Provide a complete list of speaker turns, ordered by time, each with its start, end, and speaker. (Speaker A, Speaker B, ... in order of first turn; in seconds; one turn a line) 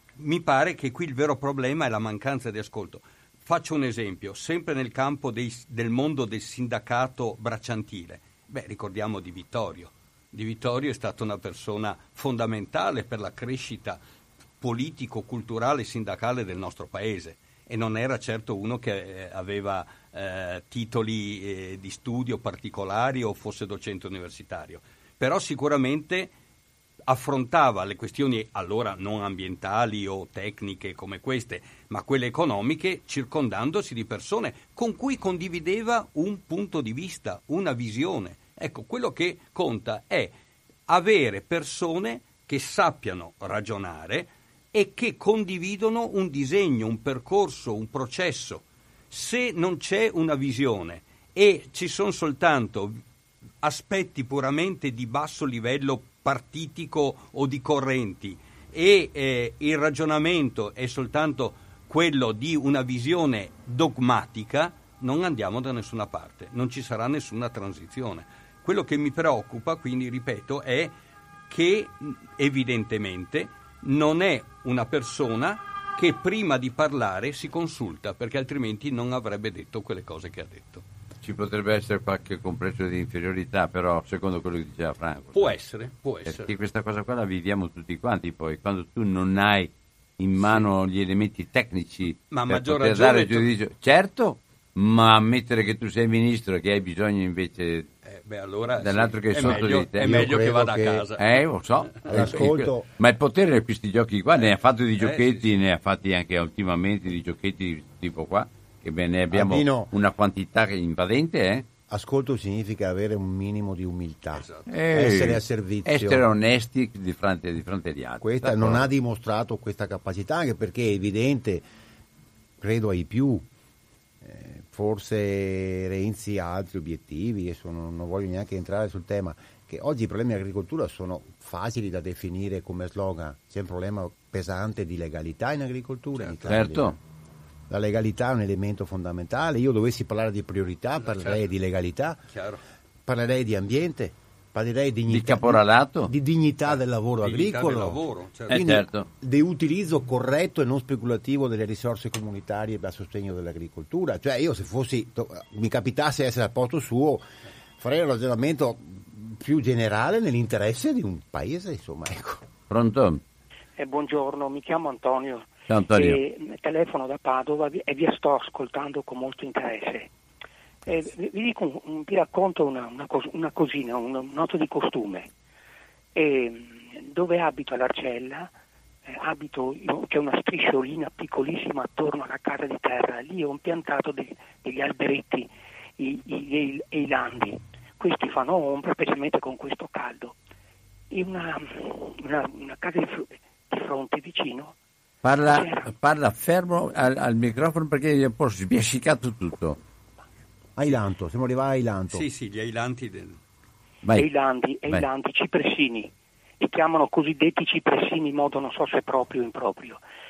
Speaker A: 0.2-14.0
Speaker A: 14.6-26.3
Speaker A: 27.1-40.3
Speaker A: 40.9-53.0
Speaker A: 53.6-70.9
Speaker A: 71.5-80.8
Speaker B: 81.2-85.5
Speaker A: 85.3-86.5
Speaker B: 86.3-97.9
Speaker A: 90.4-90.7
Speaker A: 92.3-93.5
Speaker A: 98.0-102.7
Speaker B: 98.8-100.4
Speaker C: 99.4-101.1
Speaker B: 101.2-111.7
Speaker C: 102.1-102.9
Speaker A: 104.4-105.5
Speaker C: 109.3-109.9
Speaker C: 111.9-116.2
Speaker A: 114.3-114.7
Speaker B: 114.7-118.9
Speaker C: 118.2-121.6
Speaker C: 122.6-123.5
Speaker C: 124.2-137.0
Speaker B: 136.5-136.9
Speaker C: 137.7-142.2
Speaker A: 141.1-141.4
Speaker A: 142.3-142.6
Speaker C: 143.1-157.2
Speaker B: 145.1-146.1
Speaker A: 146.7-148.8
Speaker B: 148.5-149.1
Speaker C: 157.8-162.4
Speaker B: 162.7-163.2
Speaker D: 163.8-170.1
Speaker B: 165.7-166.2
Speaker D: 170.8-175.3
Speaker D: 176.2-178.5
Speaker D: 179.1-190.3
Speaker D: 191.1-194.7
Speaker B: 195.2-199.8
Speaker D: 195.4-195.9
Speaker C: 200.8-202.3
Speaker A: 202.1-203.4
Speaker B: 204.0-204.3
Speaker D: 204.2-210.0